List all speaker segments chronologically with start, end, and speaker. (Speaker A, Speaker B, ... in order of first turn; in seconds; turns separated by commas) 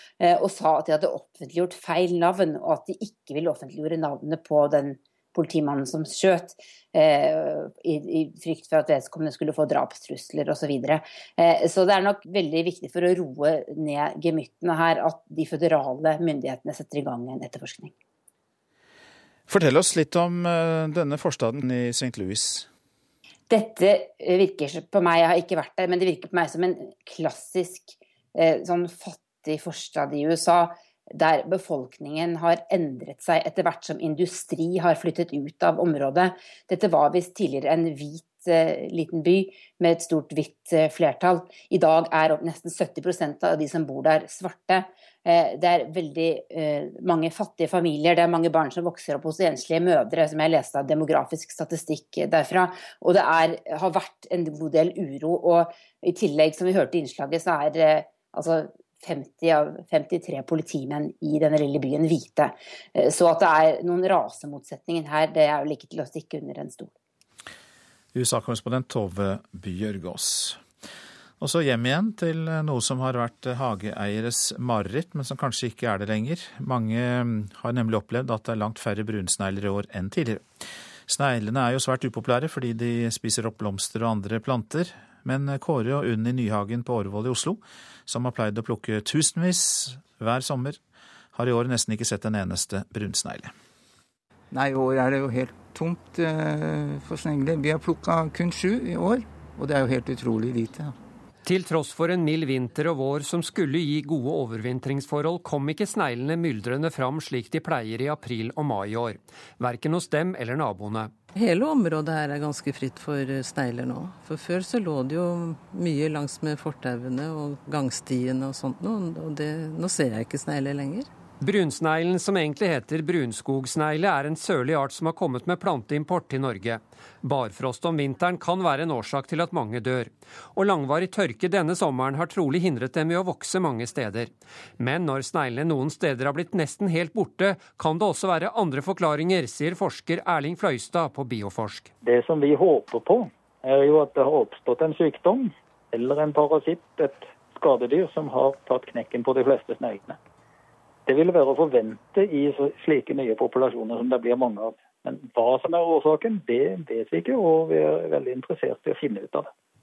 Speaker A: 0.2-17.9, Speaker B: 19.5-22.7, Speaker A: 23.5-66.9, Speaker B: 68.1-70.6, Speaker B: 71.4-80.5, Speaker B: 81.1-90.8, Speaker B: 91.3-93.5, Speaker C: 94.5-100.9, Speaker D: 101.5-111.1, Speaker E: 111.3-121.1, Speaker D: 121.4-141.9, Speaker F: 142.0-150.2, Speaker F: 151.1-159.5